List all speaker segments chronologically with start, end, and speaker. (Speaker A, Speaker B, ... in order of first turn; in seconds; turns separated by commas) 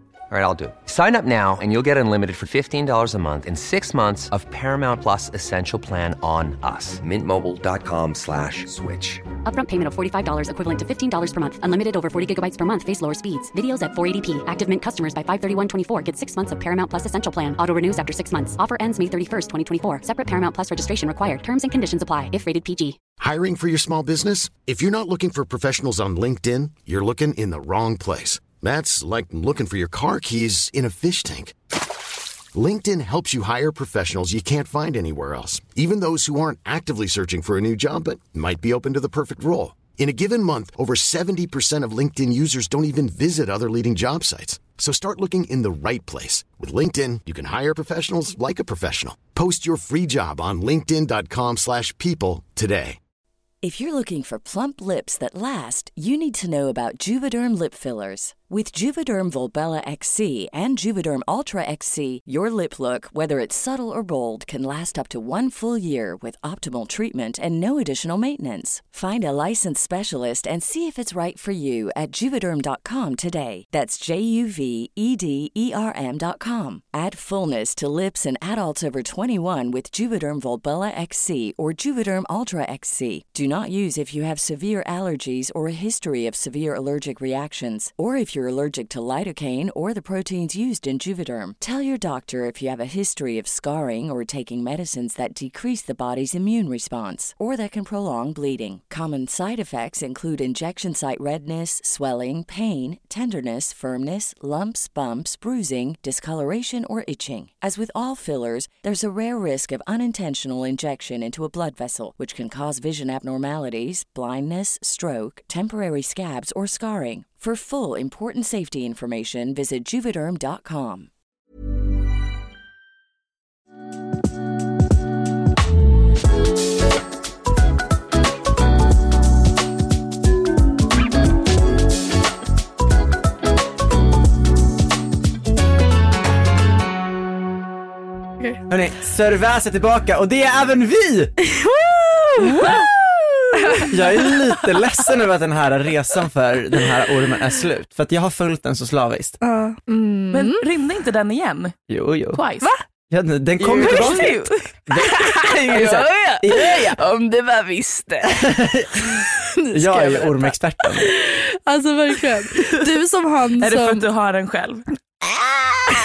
Speaker A: 0.3-9.3, Speaker B: 9.4-23.0, Speaker C: 23.2-31.5, Speaker C: 32.5-53.0, Speaker D: 53.6-121.1, Speaker E: 138.7-141.4, Speaker F: 141.4-143.0, Speaker G: 142.4-142.7, Speaker F: 143.6-144.4, Speaker E: 143.9-149.4, Speaker F: 149.4-150.6, Speaker G: 150.3-151.8, Speaker E: 151.9-152.4, Speaker G: 152.3-152.7, Speaker E: 153.1-154.4, Speaker G: 153.6-154.6, Speaker F: 153.8-158.6, Speaker E: 154.9-157.0, Speaker E: 158.4-161.1, Speaker F: 159.6-164.0, Speaker G: 163.6-164.8